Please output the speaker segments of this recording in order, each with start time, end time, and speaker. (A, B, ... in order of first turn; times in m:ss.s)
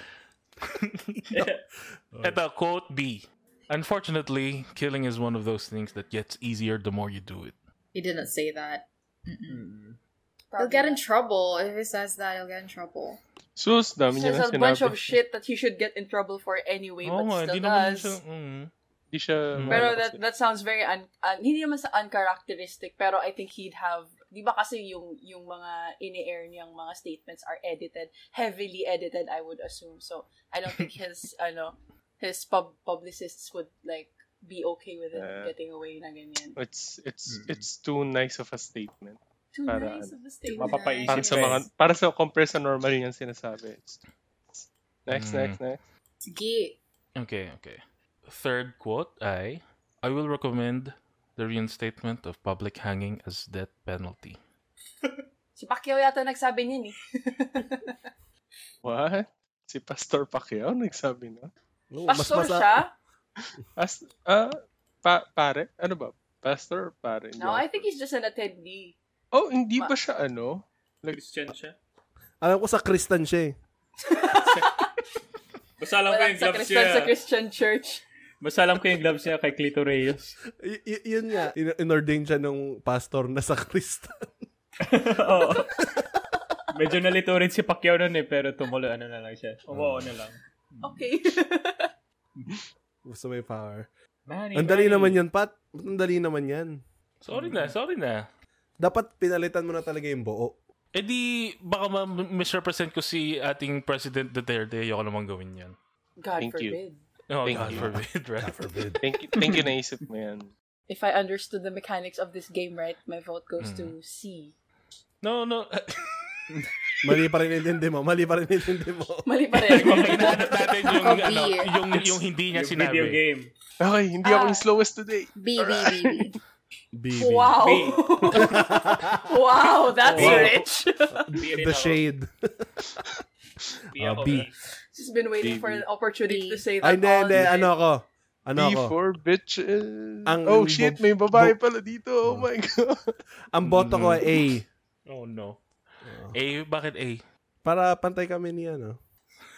0:00.7-0:01.4 A
0:01.3-0:01.6 B
0:02.1-0:02.4 C
0:02.2-0:07.5 A
0:07.9-0:09.6 D
0:09.5-0:10.0 B
0:10.5-0:11.0 E
0:10.6-0:13.2 D
0:13.6-0:15.1 F
0:14.1-0:18.2 E
0:17.0-0:18.7 A
0:19.1-0:20.2 F
0:19.5-0:19.8 A
0:19.7-0:36.6 E
0:35.1-0:35.5 F
0:36.6-0:40.2 F
0:37.3-0:37.6 B
0:39.5-0:41.6 E
0:40.5-0:41.6 B
0:40.6-0:40.9 D
0:41.1-0:44.0 F
0:44.5-0:45.8 F
0:45.1-0:45.6 A
0:46.2-0:46.8 D
0:47.2-0:54.4 A
0:55.6-0:58.0 E
0:58.8-1:01.5 F
1:01.9-1:02.8 C
1:02.1-1:02.9 E
1:03.8-1:07.9 F
1:07.4-1:09.0 E
1:09.3-1:11.2 F
1:11.1-1:11.8 B
1:12.4-1:13.5 C
1:14.0-1:14.8 E
1:14.3-1:14.7 B
1:15.8-1:17.2 B
1:16.1-1:18.0 E
1:18.4-1:20.4 B
1:20.6-1:24.3 C
1:24.8-1:25.8 B
1:26.7-1:31.0 B
1:29.7-1:30.1 C
1:30.8-1:31.9 E
1:33.0-1:33.9 C
1:34.3-1:35.2 B
1:34.5-1:36.8 C
1:37.2-1:38.3 A
1:37.3-1:37.7 B
1:38.8-1:40.6 C
1:40.9-1:45.8 A
1:46.2-1:47.0 E
1:46.4-1:46.8 F
1:47.3-1:48.8 A
1:47.4-1:47.9 F
1:47.6-1:49.0 C
1:49.0-1:50.5 F
1:49.4-1:49.7 B
1:50.9-1:54.5 E
1:53.6-1:54.0 A
1:55.2-1:56.4 A
1:57.0-1:59.3 C
1:59.2-2:00.7 E
1:59.6-2:03.2 A
2:00.9-2:01.8 D
2:02.5-2:03.5 B
2:03.8-2:06.4 F
2:04.2-2:04.6 E
2:05.3-2:06.3 D
2:06.9-2:09.2 C
2:07.1-2:11.3 E
2:07.6-2:08.5 B
2:10.0-2:10.6 B
2:10.1-2:10.6 C
2:11.1-2:13.0 C
2:11.3-2:12.0 B
2:13.9-2:14.6 B
2:14.0-2:14.5 C
2:14.9-2:17.7 E
2:15.4-2:15.8 F
2:16.3-2:16.7 D
2:16.8-2:18.9 C
2:18.6-2:23.1 F
2:20.2-2:21.6 C
2:23.5-2:24.7 C
2:23.6-2:24.3 A
2:25.1-2:25.6 A
2:26.0-2:26.4 C
2:26.3-2:27.2 A
2:27.6-2:29.0 C